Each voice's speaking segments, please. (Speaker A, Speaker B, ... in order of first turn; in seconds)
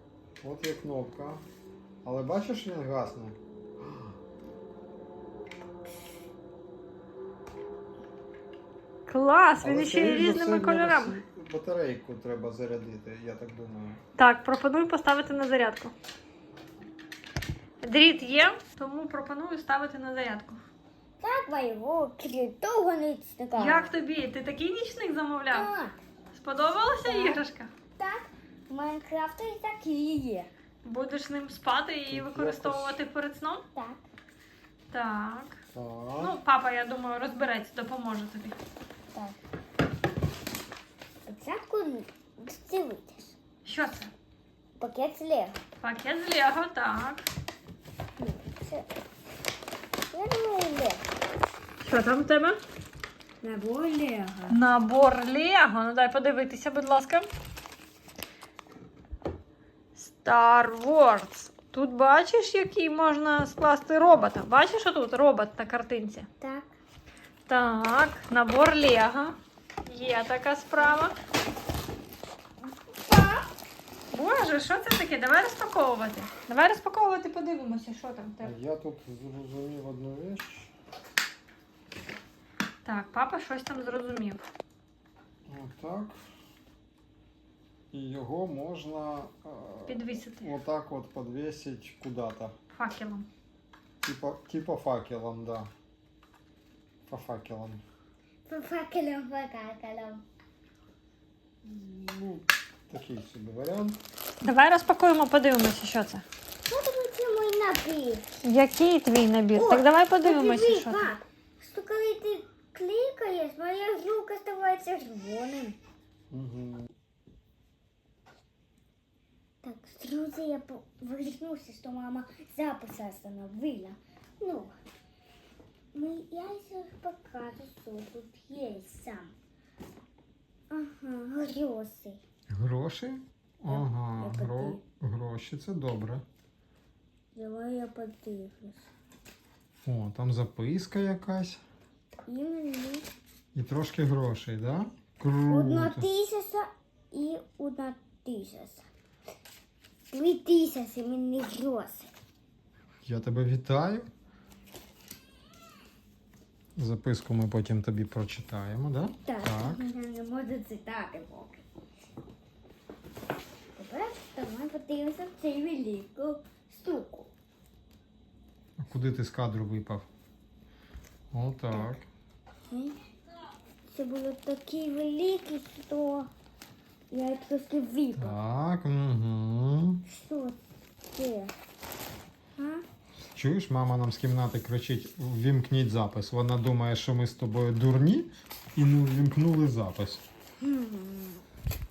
Speaker A: 0.4-1.4, 2.0-3.4, 9.6-14.0, 32.1-33.0, 35.7-36.4, 78.4-80.7, 85.5-86.2, 87.9-92.5, 94.0-95.7, 97.1-97.8, 101.6-104.0, 116.3-116.9, 132.5-136.2, 139.8-141.6, 143.5-146.1, 153.1-154.1, 156.8-159.8, 168.8-170.1, 171.3-172.1, 178.2-180.0, 183.3-190.2
Speaker B: 9.1-11.2, 14.2-15.9, 17.8-20.6, 23.6-25.7, 26.3-27.7, 30.8-33.6, 34.9-35.6, 36.2-38.6, 43.6-44.1, 45.8-47.2, 51.8-52.6, 54.5-57.3, 60.0-66.3, 67.5-71.2, 74.1-78.5, 82.8-84.4, 89.9-90.5, 92.7-93.3, 104.4-106.2, 108.4-111.2
Speaker C: 21.2-23.9, 25.5-26.0, 27.1-27.4, 28.0-30.5, 33.8-34.0, 41.3-43.4, 44.8-45.6, 48.2-48.9, 50.1-51.0, 53.4-54.6, 66.4-66.7, 72.9-73.5, 98.5-100.2, 106.7-108.3, 109.5-115.8, 119.6-124.7, 125.9-129.3, 130.7-132.2, 133.7-134.8, 137.3-138.9, 142.3-143.1, 145.5-148.8, 150.1-152.1, 159.3-161.6, 163.8-167.3, 173.9-176.3, 177.1-178.4, 180.1-180.6, 181.1-181.5, 182.6-182.8, 190.6-191.4